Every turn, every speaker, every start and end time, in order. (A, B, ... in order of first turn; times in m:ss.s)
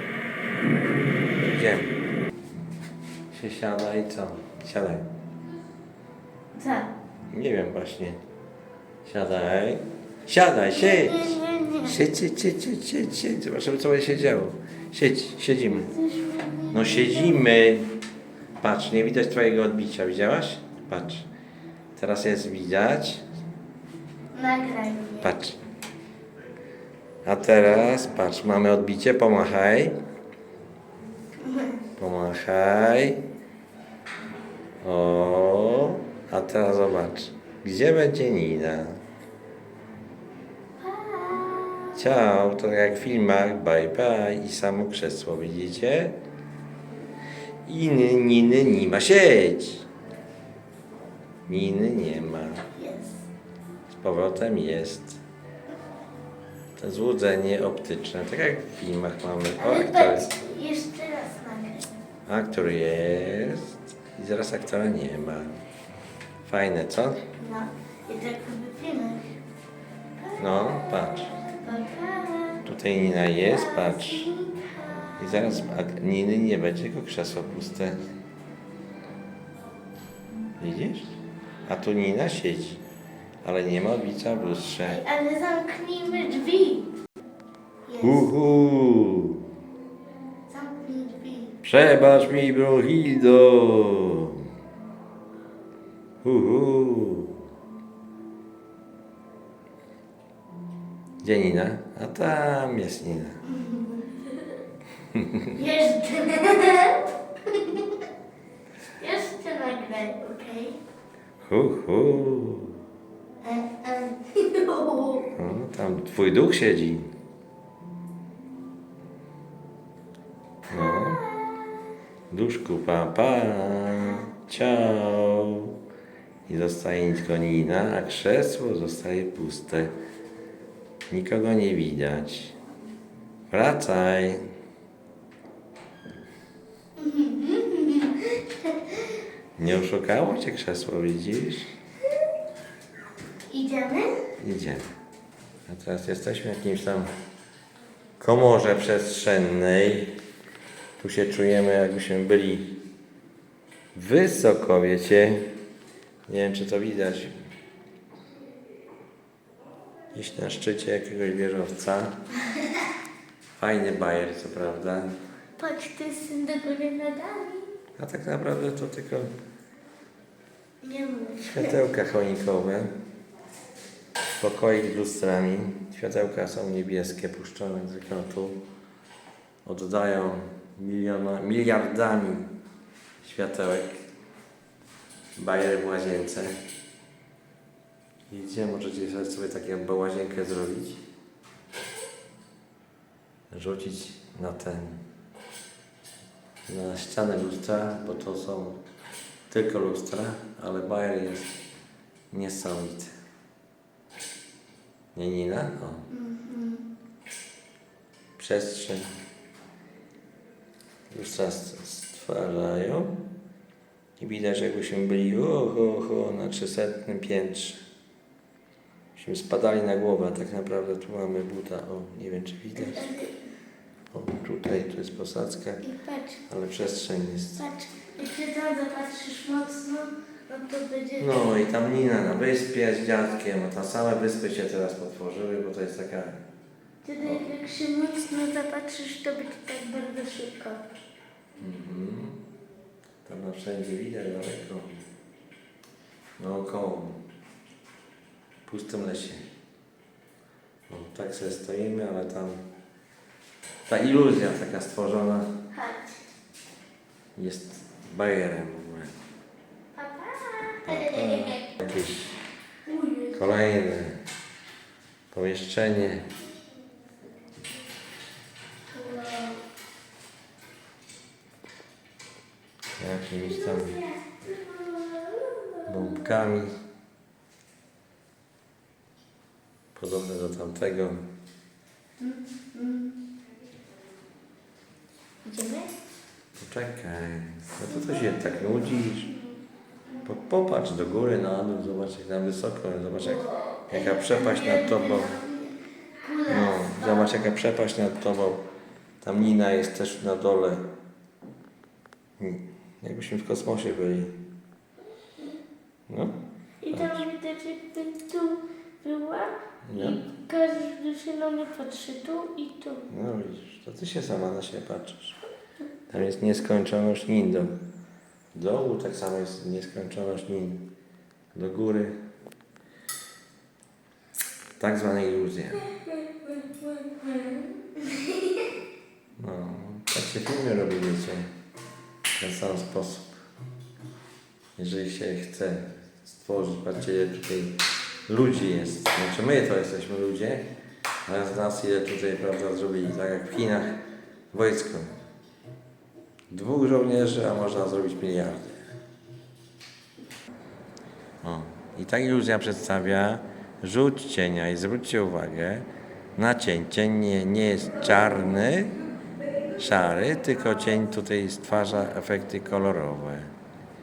0:01.4-0:01.9 A
0:03.3-0:05.1 A
0:06.5-0:06.9 B
0:07.3-0:08.2 A
0:09.0-0:15.9 A
0:10.7-0:12.0 B
0:15.9-0:17.5 B
0:16.7-0:18.0 A
0:18.6-0:21.3 A
0:22.0-0:23.2 A
0:24.3-0:25.3 B
0:25.2-0:25.6 A
0:27.2-0:30.0 A
0:31.4-0:31.8 B
0:32.0-0:33.2 A
0:34.8-0:39.0 A
0:40.8-0:42.2 B
0:41.9-0:46.2 A
0:47.6-0:49.8 A
0:51.5-0:52.6 A
0:52.7-0:53.2 B
0:53.9-0:55.2 A
0:56.8-1:00.3 A
0:59.6-1:01.9 B
1:02.3-1:05.6 A
1:06.4-1:07.2 A
1:07.4-1:09.3 B
1:10.2-1:12.7 B
1:10.4-1:11.3 A
1:12.6-1:14.3 A
1:13.2-1:15.5 B
1:15.2-1:18.0 A
1:20.6-1:21.1 A
1:21.6-1:22.8 A
1:23.4-1:25.0 A
1:24.8-1:26.9 B
1:27.9-1:28.3 B
1:28.0-1:29.4 A
1:30.5-1:31.6 B
1:31.6-1:34.4 A
1:36.2-1:37.4 A
1:41.2-1:43.4 A
1:43.5-1:44.2 B
1:45.1-1:45.5 A
1:45.5-1:47.9 B
1:49.0-1:50.8 B
1:51.4-1:52.8 A
1:53.4-1:55.3 B
1:55.3-1:57.1 A
2:00.7-2:01.2 A
2:00.7-2:01.8 B
2:02.3-2:05.8 A
2:03.9-2:04.3 B
2:06.5-2:09.9 A
2:11.1-2:12.5 A
2:13.5-2:14.4 A
2:17.0-2:19.1 B
2:19.6-2:21.7 A
2:23.5-2:24.1 B
2:24.4-2:24.8 A
2:25.7-2:27.1 A
2:28.2-2:30.2 A
2:31.0-2:32.8 A
2:33.9-2:35.5 A
2:36.3-2:37.3 A
2:40.1-2:42.1 A
2:43.6-2:45.1 A
2:45.6-2:47.7 B
2:48.0-2:49.3 A
2:50.8-2:51.8 B
2:51.4-2:52.9 A
2:54.4-2:58.6 A
2:59.6-3:02.5 A
3:03.2-3:04.0 A
3:05.4-3:06.5 A
3:08.3-3:11.0 A
3:13.5-3:15.0 A
3:16.7-3:18.8 A
3:19.5-3:21.5 A
3:22.3-3:23.1 A
3:25.1-3:26.1 A
3:26.1-3:26.9 B
3:28.4-3:29.1 A
3:31.1-3:33.2 A
3:34.2-3:37.8 A
3:39.1-3:43.1 A
3:42.8-3:43.4 B
3:44.1-3:45.8 A
3:45.8-3:46.4 B
3:46.5-3:47.6 A
3:47.6-3:51.5 B
3:51.2-3:56.4 A
3:57.0-4:00.8 B
4:01.6-4:02.4 A
4:03.2-4:05.0 A
4:06.4-4:07.2 A
4:08.6-4:09.4 A
4:10.9-4:12.6 A
4:13.9-4:15.5 A
4:15.7-4:16.2 B
4:17.4-4:19.1 A
4:19.9-4:21.8 B
4:20.8-4:22.4 A
4:22.9-4:23.5 B
4:23.3-4:24.2 A
4:25.3-4:26.3 A
4:28.9-4:29.6 B
4:33.0-4:34.0 A
4:33.4-4:36.4 B
4:35.9-4:36.7 A
4:39.9-4:41.3 A
4:42.2-4:43.1 B
4:45.4-4:45.9 B
4:46.6-4:49.3 A
4:47.9-4:49.4 B
4:50.2-4:55.3 A
4:53.2-4:57.3 B
4:56.5-4:58.7 A
4:59.2-5:00.9 A
5:02.4-5:04.4 A
5:06.1-5:06.4 A
5:06.8-5:13.1 B
5:06.9-5:07.2 A
5:09.9-5:10.2 A
5:13.1-5:15.4 A
5:16.1-5:17.8 A
5:18.5-5:20.9 A
5:21.5-5:22.2 A
5:24.8-5:25.9 A
5:26.6-5:28.4 B
5:29.4-5:31.5 A
5:32.3-5:33.3 A
5:34.8-5:40.7 A
5:41.2-5:44.0 A
5:44.5-5:45.2 A
5:46.5-5:48.8 A
5:51.4-5:59.0 A
5:59.8-6:03.5 A